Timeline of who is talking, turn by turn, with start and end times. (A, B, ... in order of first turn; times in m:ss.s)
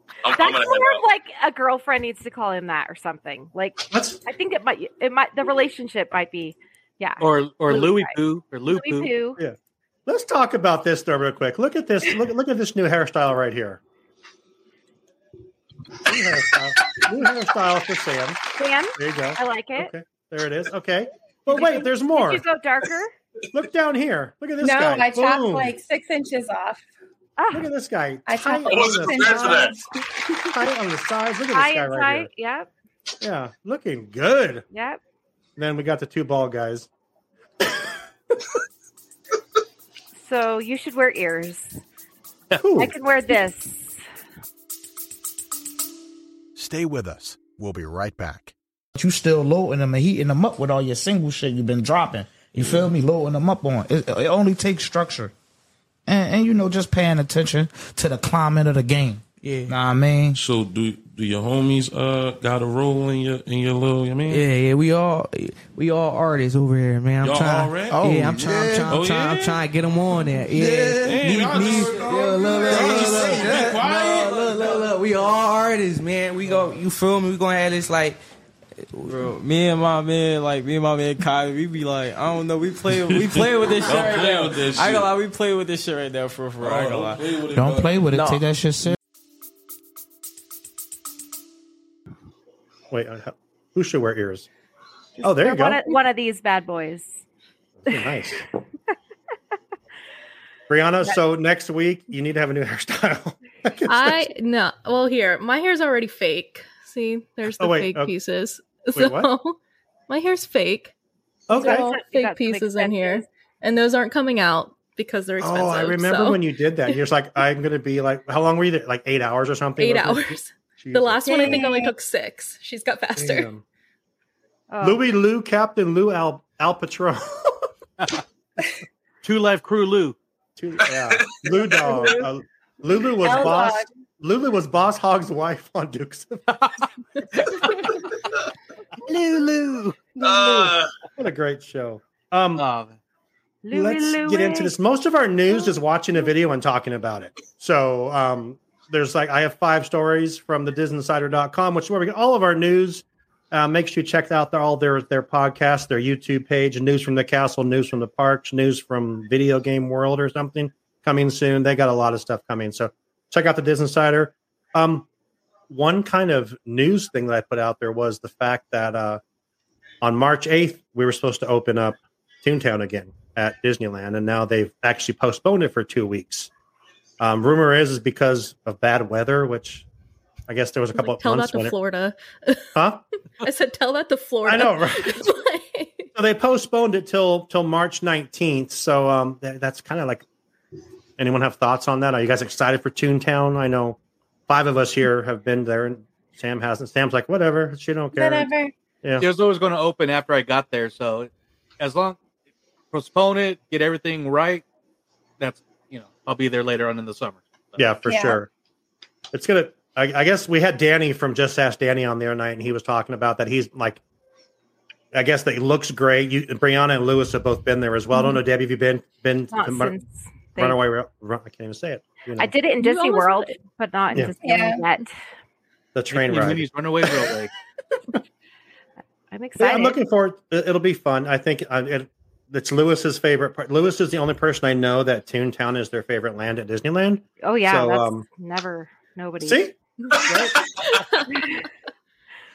0:00.2-0:01.0 A
0:00.3-0:08.1 B
0:03.9-0:04.2 C
0:07.2-0:09.1 D
0:08.7-0:09.4 B
0:10.0-0:13.8 C
0:16.0-0:18.4 C
0:18.6-0:19.9 B
0:19.0-0:22.4 C
0:21.5-0:23.1 B
0:23.5-0:25.7 C
0:24.6-0:26.8 E
0:27.4-0:27.6 B
0:27.5-0:29.9 C
0:28.3-0:29.8 E
0:28.6-0:29.8 A
0:30.4-0:32.3 C
0:31.5-0:32.7 B
0:33.2-0:34.6 C
0:34.7-0:35.0 B
0:35.6-0:36.9 C
0:40.2-0:41.7 B
0:42.6-0:42.9 C
0:42.7-0:44.0 B
0:46.6-0:48.5 F
0:48.9-0:55.3 G
0:56.0-1:00.4 G
0:59.4-0:59.7 H
1:00.3-1:04.4 I
1:04.3-1:18.2 H
1:07.2-1:09.6 I
1:08.0-1:08.3 G
1:10.8-1:14.6 I
1:18.9-1:27.4 H
1:23.1-1:25.1 I
1:26.6-1:28.2 I
1:27.5-1:29.0 G
1:28.1-1:28.9 H
1:32.9-1:34.5 C
1:35.2-1:37.2 B
1:35.2-1:35.8 C
1:37.8-1:38.4 C
1:40.7-1:44.3 C
1:43.9-1:49.6 J
1:47.6-1:48.1 C
1:48.9-1:49.3 C
1:50.1-1:50.9 J
1:51.5-1:51.9 C
1:51.5-1:57.0 J
1:51.6-1:53.2 B
1:55.4-2:01.7 C
1:59.8-2:03.5 J
2:01.2-2:01.9 E
2:03.2-2:03.6 C
2:04.7-2:05.0 B
2:04.8-2:07.4 C
2:09.2-2:10.2 D
2:10.6-2:16.6 C
2:11.9-2:12.2 B
2:13.2-2:13.9 E
2:19.1-2:20.0 D
2:19.3-2:22.6 C
2:20.2-2:20.9 A
2:22.6-2:22.9 D
2:23.6-2:24.7 B
2:23.7-2:45.0 C
2:45.7-2:49.2 C
2:50.0-2:56.5 C
2:57.2-2:59.8 C
3:00.5-3:01.8 C
3:00.9-3:02.7 J
3:02.7-3:03.0 C
3:03.4-3:06.1 J
3:04.4-3:05.2 C
3:06.1-3:10.2 C
3:11.2-3:18.5 C
3:18.1-3:18.7 E
3:19.0-3:19.3 C
3:19.2-3:22.2 D
3:22.9-3:24.6 D
3:25.4-3:27.8 D
3:27.8-3:28.5 C
3:28.0-3:28.4 E
3:29.3-3:34.0 C
3:35.1-3:39.9 C
3:39.5-3:40.8 B
3:40.6-3:42.5 C
3:42.4-3:45.1 B
3:42.8-3:43.6 J
3:44.4-3:44.8 E
3:45.9-3:46.7 C
3:46.1-3:47.5 D
3:49.3-3:50.0 B
3:49.6-3:58.2 C
3:57.4-3:59.6 B
3:59.4-4:00.6 C
4:00.1-4:01.2 J
4:01.3-4:01.6 B